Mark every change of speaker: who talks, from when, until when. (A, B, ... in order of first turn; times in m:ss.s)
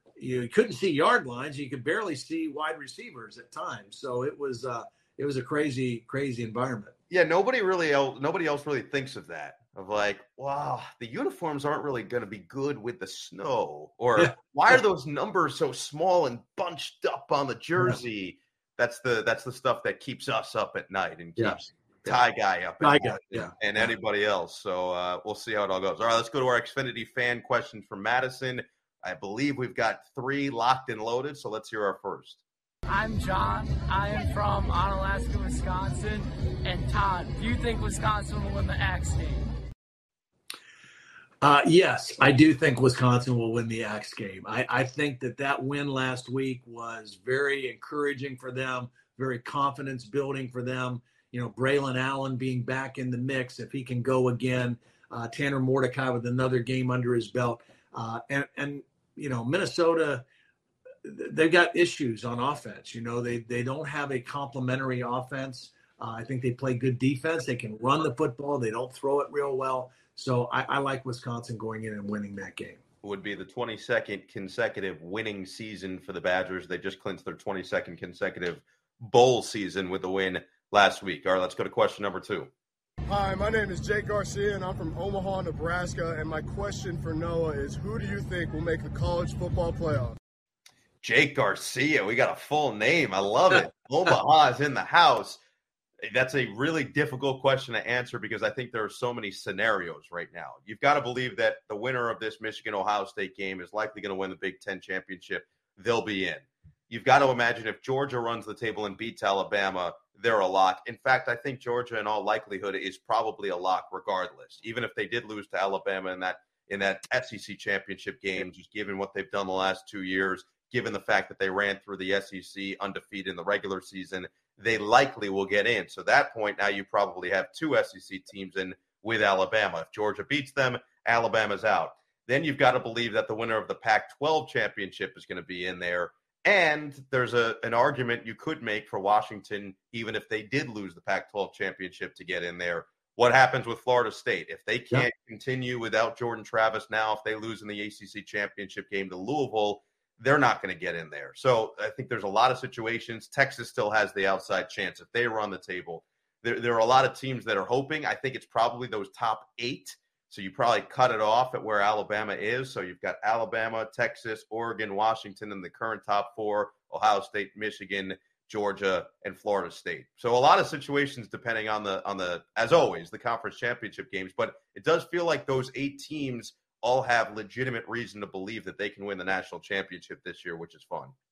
0:00.2-0:06.9 A
0:07.1-0:32.4 B
0:21.4-0:22.2 A
0:22.8-0:23.5 A
0:32.8-0:39.5 C
0:41.4-1:00.2 A
1:01.0-1:12.8 A
1:13.0-1:22.5 B
1:23.1-1:30.2 D
1:31.0-1:35.4 B
1:36.0-3:01.1 B